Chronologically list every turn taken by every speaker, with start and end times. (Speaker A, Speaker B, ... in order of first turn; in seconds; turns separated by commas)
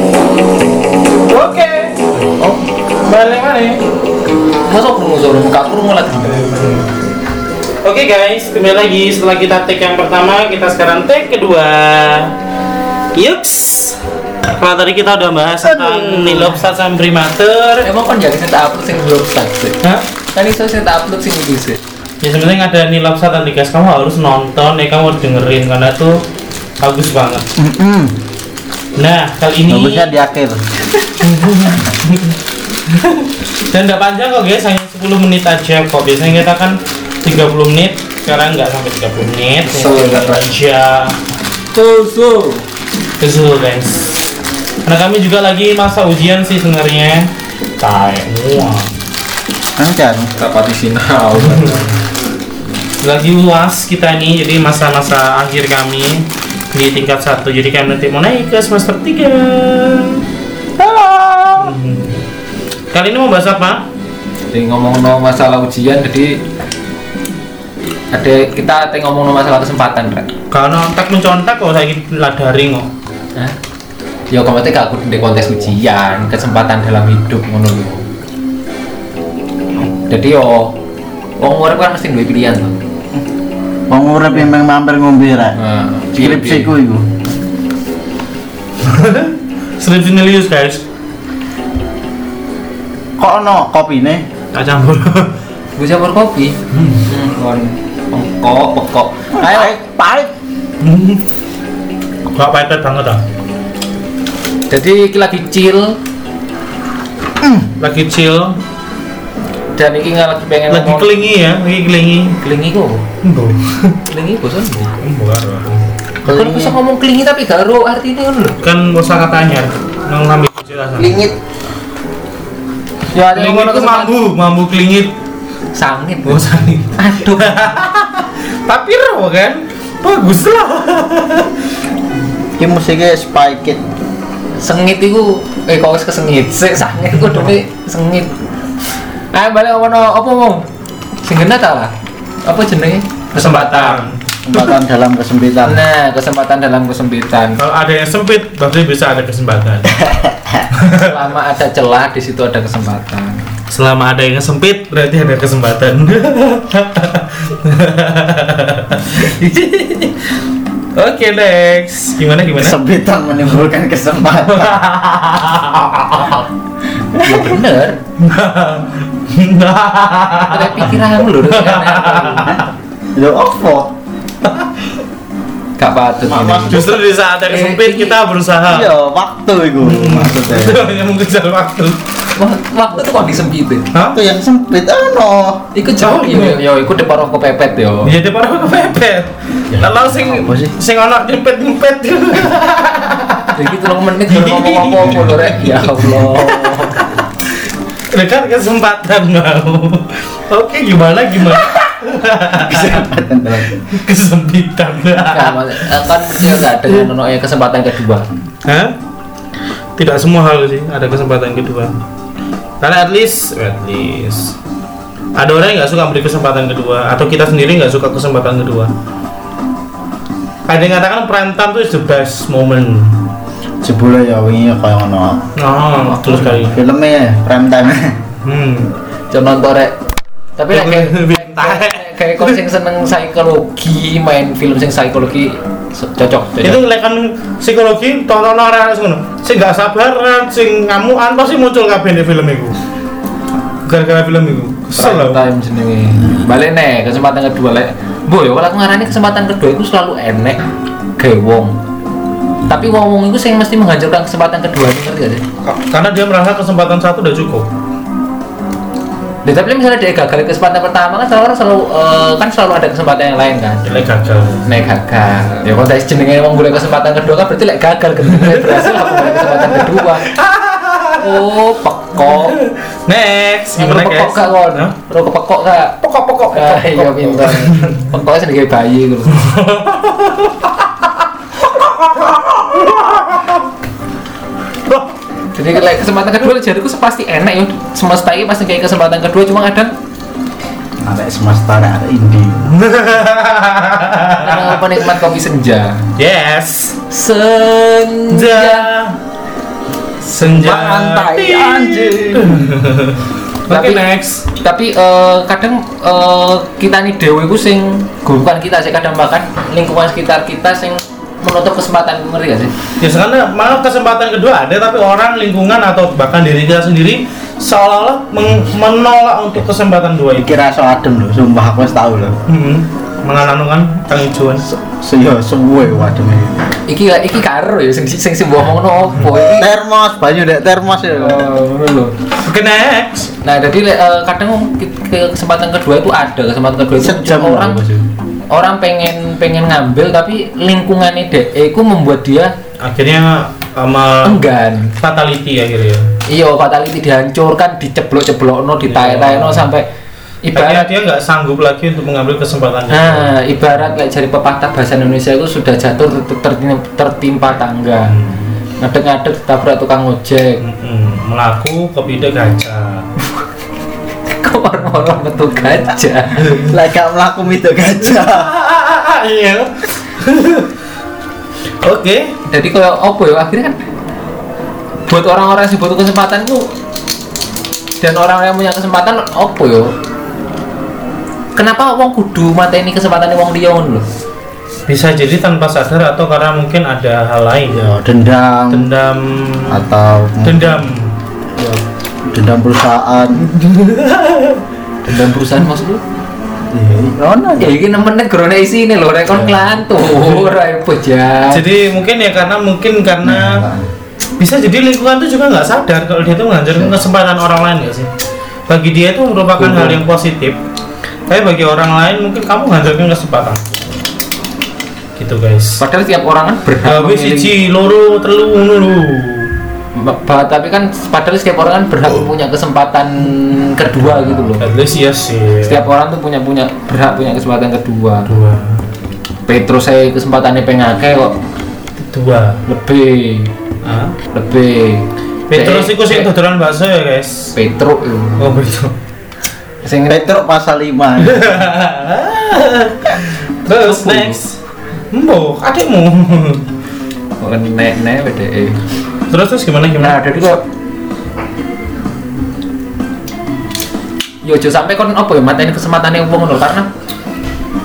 Speaker A: 1.3-2.3, Speaker A: 3.0-3.8, Speaker B: 4.7-6.8, Speaker A: 6.3-6.9, Speaker A: 7.8-12.3, Speaker A: 13.2-17.9, Speaker C: 16.1-16.4, Speaker B: 17.8-19.8, Speaker B: 20.3-21.8, Speaker A: 22.2-26.2, Speaker A: 26.8-27.5, Speaker C: 27.6-28.2, Speaker A: 29.0-30.1, Speaker C: 29.7-30.6, Speaker A: 31.2-41.2, Speaker B: 39.7-40.6, Speaker B: 41.7-42.6, Speaker A: 43.2-44.2, Speaker A: 44.9-47.3, Speaker A: 47.8-48.9, Speaker C: 49.8-50.3, Speaker B: 50.4-52.0, Speaker A: 51.4-51.9, Speaker A: 53.0-60.2, Speaker C: 60.8-61.8, Speaker A: 61.6-62.2, Speaker A: 62.9-63.9, Speaker B: 64.5-66.4, Speaker B: 68.1-70.3, Speaker A: 70.5-72.9, Speaker B: 74.3-78.0, Speaker B: 80.1-80.8, Speaker B: 81.4-82.8, Speaker C: 83.9-85.6, Speaker B: 85.6-86.7, Speaker C: 86.2-87.1, Speaker A: 88.8-90.8, Speaker C: 93.2-94.2, Speaker A: 94.5-95.3, Speaker B: 95.8-99.7, Speaker A: 96.7-97.0, Speaker C: 99.3-100.3, Speaker A: 100.8-101.2, Speaker A: 102.3-103.2, Speaker B: 104.7-106.0, Speaker C: 107.4-107.7, Speaker A: 107.8-108.6, Speaker B: 109.8-111.1, Speaker A: 110.7-112.3, Speaker B: 112.4-113.0, Speaker A: 113.2-114.0, Speaker B: 114.1-115.0, Speaker A: 115.0-115.8, Speaker C: 116.2-116.8, Speaker B: 116.3-118.6, Speaker A: 118.6-121.2, Speaker C: 121.0-121.3, Speaker B: 123.1-124.2, Speaker A: 123.3-125.1, Speaker B: 125.7-127.8, Speaker A: 126.2-131.5, Speaker C: 132.6-133.8, Speaker B: 134.6-138.4, Speaker B: 139.3-140.6, Speaker B: 141.2-141.9, Speaker B: 142.4-144.7, Speaker A: 143.3-144.2, Speaker C: 144.4-145.8, Speaker B: 145.7-147.6, Speaker A: 147.6-149.9, Speaker C: 150.0-150.7, Speaker A: 150.7-151.1, Speaker B: 150.9-153.4, Speaker A: 153.7-160.1, Speaker A: 160.9-162.8, Speaker C: 162.6-164.8, Speaker A: 164.4-166.5, Speaker C: 167.1-167.6, Speaker B: 167.2-168.0, Speaker A: 168.2-172.7, Speaker B: 170.5-172.6, Speaker C: 173.2-173.9, Speaker A: 174.4-174.9, Speaker B: 175.8-178.2, Speaker C: 176.3-176.9, Speaker A: 176.7-178.9, Speaker C: 178.7-180.8, Speaker A: 179.8-182.0, Speaker B: 182.3-183.9, Speaker A: 183.9-184.2, Speaker C: 184.1-185.7, Speaker B: 185.7-188.1, Speaker A: 186.0-186.6, Speaker A: 188.0-203.0, Speaker C: 189.7-190.8, Speaker B: 193.5-197.2, Speaker C: 202.5-203.8, Speaker A: 203.7-206.7, Speaker B: 205.3-208.3, Speaker A: 208.7-208.9, Speaker A: 210.0-212.0, Speaker A: 212.8-214.6, Speaker A: 215.4-218.9, Speaker A: 220.7-223.2, Speaker C: 223.8-225.4, Speaker A: 225.6-226.8, Speaker B: 226.1-226.7, Speaker C: 226.6-228.2, Speaker A: 228.4-228.9, Speaker B: 229.3-230.0, Speaker B: 230.6-236.8, Speaker A: 230.7-232.6, Speaker A: 236.6-242.8, Speaker A: 243.9-245.4, Speaker B: 245.0-250.6, Speaker B: 251.2-251.8, Speaker B: 252.7-255.4, Speaker A: 255.6-257.7, Speaker B: 259.4-263.9, Speaker A: 263.9-264.7, Speaker B: 264.6-270.3, Speaker A: 268.3-271.5, Speaker B: 271.2-272.6, Speaker A: 272.2-274.9, Speaker B: 273.8-276.0, Speaker A: 276.0-278.1, Speaker B: 276.5-279.4, Speaker A: 279.3-283.7, Speaker A: 284.9-285.1, Speaker B: 285.5-289.9, Speaker C: 291.0-292.7, Speaker A: 292.7-294.9, Speaker B: 294.4-296.1, Speaker A: 296.2-297.0, Speaker B: 297.1-298.9, Speaker A: 298.3-299.2, Speaker A: 300.3-304.5, Speaker C: 300.4-302.7, Speaker B: 303.7-312.7, Speaker A: 313.0-320.5, Speaker C: 320.4-322.4, Speaker A: 322.5-324.6, Speaker C: 324.7-326.6, Speaker B: 326.9-329.7, Speaker C: 329.4-331.4, Speaker B: 331.1-332.2, Speaker A: 332.4-333.3, Speaker B: 333.4-337.8, Speaker C: 337.0-338.1, Speaker B: 338.5-342.5, Speaker A: 342.8-344.5, Speaker B: 344.2-345.0, Speaker A: 345.0-346.1, Speaker B: 346.3-349.9, Speaker A: 348.8-349.7, Speaker B: 350.4-350.9, Speaker A: 350.5-353.4, Speaker B: 352.9-358.1, Speaker A: 358.1-358.5, Speaker B: 358.8-360.6, Speaker A: 360.6-363.1, Speaker B: 364.3-366.5, Speaker A: 366.4-366.8, Speaker C: 366.7-368.5, Speaker A: 368.0-370.7, Speaker A: 371.8-372.3, Speaker B: 372.5-373.8, Speaker B: 375.1-376.6, Speaker B: 378.0-379.9, Speaker B: 381.6-384.1, Speaker A: 384.9-387.8, Speaker C: 387.7-388.9, Speaker A: 388.7-389.8, Speaker C: 389.7-390.8, Speaker A: 390.4-391.1, Speaker C: 391.6-393.5, Speaker A: 393.6-394.6, Speaker B: 395.1-396.0, Speaker C: 396.7-397.8, Speaker B: 397.6-401.7, Speaker C: 399.3-399.8, Speaker A: 400.1-400.5, Speaker A: 401.5-403.6, Speaker C: 403.2-403.9, Speaker A: 404.4-408.1, Speaker A: 408.7-410.6, Speaker B: 409.6-410.0, Speaker A: 411.3-414.0, Speaker A: 415.2-415.8, Speaker B: 415.8-417.5, Speaker A: 416.8-419.5, Speaker B: 419.9-424.6, Speaker A: 424.6-425.9, Speaker B: 425.6-428.3, Speaker A: 428.3-428.8, Speaker B: 429.5-431.4, Speaker A: 432.0-432.6, Speaker B: 432.7-433.5, Speaker A: 433.8-434.2, Speaker B: 434.3-436.3, Speaker A: 435.5-437.6, Speaker B: 437.6-438.6, Speaker A: 438.4-438.9, Speaker B: 439.8-440.4, Speaker C: 440.1-441.6, Speaker A: 441.2-444.6, Speaker B: 443.8-444.4, Speaker A: 445.1-446.6, Speaker B: 447.4-448.8, Speaker A: 449.3-450.6, Speaker B: 450.0-450.6, Speaker B: 454.4-456.9